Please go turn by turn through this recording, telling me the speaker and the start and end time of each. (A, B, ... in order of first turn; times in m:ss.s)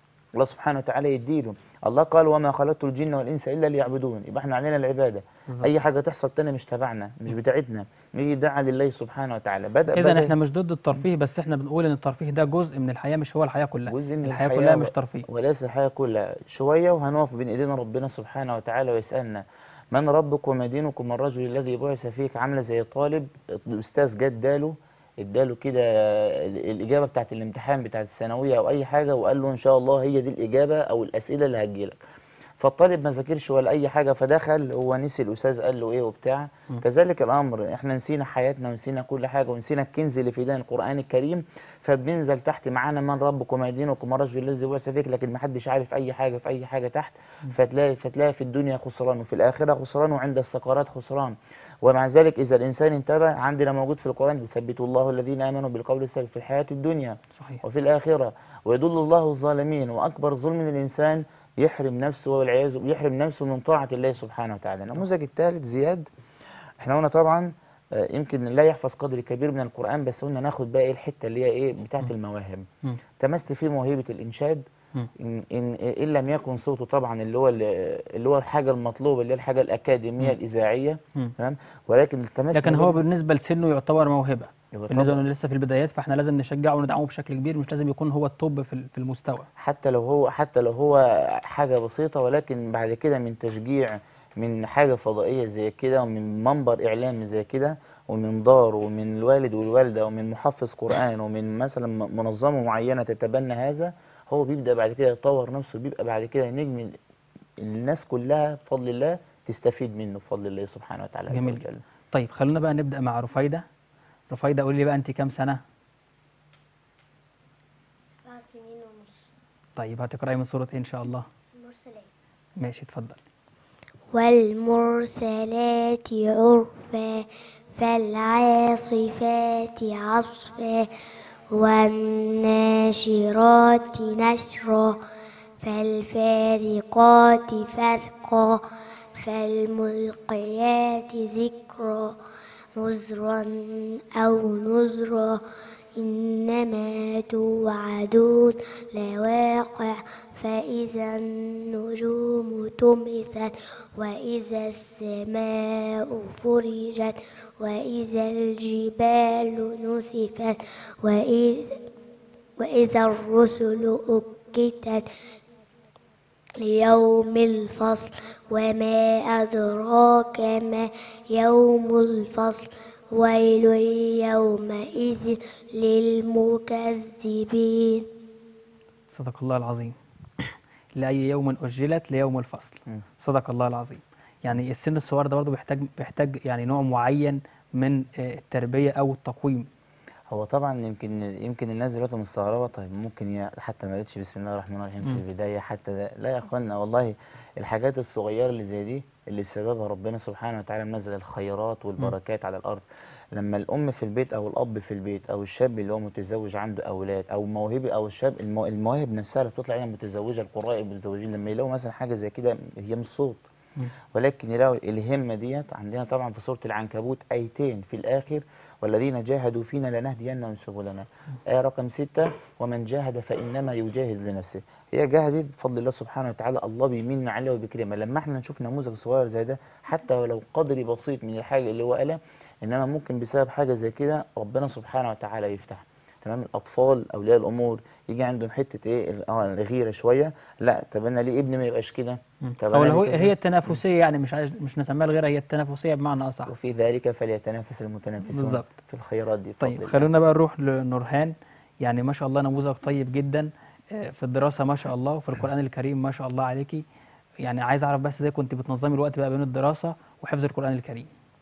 0:00.4-0:10.3 A
0:09.9-0:15.2 B
0:13.9-0:32.0 A
0:32.6-1:06.1 A
1:06.8-1:12.7 A
1:13.2-1:14.6 A
1:15.2-1:23.0 A
1:22.5-1:29.5 B
1:24.7-1:25.2 A
1:29.6-1:47.0 A
1:47.6-1:51.8 A
1:51.3-1:53.6 B
1:54.3-1:55.6 B
1:58.4-1:59.1 C
1:59.8-2:01.3 B
2:02.6-2:03.2 B
2:04.2-2:07.0 C
2:07.9-2:08.9 C
2:09.7-2:10.6 C
2:13.2-2:14.9 C
2:15.7-2:18.4 C
2:19.3-2:22.1 C
2:22.8-2:23.6 C
2:24.2-2:25.3 C
2:26.0-2:28.5 C
2:29.0-2:29.9 C
2:30.4-2:31.2 C
2:31.8-2:33.5 C
2:34.0-2:37.1 C
2:37.6-2:40.5 C
2:41.1-2:41.6 C
2:42.6-2:45.0 C
2:46.7-2:50.8 C
2:51.4-2:52.6 C
2:53.2-2:55.3 C
2:55.8-2:58.0 C
2:59.1-3:09.7 B
3:10.3-3:33.4 A
3:34.1-4:03.7 A
4:02.4-4:06.5 B
4:06.4-4:10.1 A
4:08.3-4:08.7 B
4:09.6-4:16.8 B
4:17.4-4:21.1 B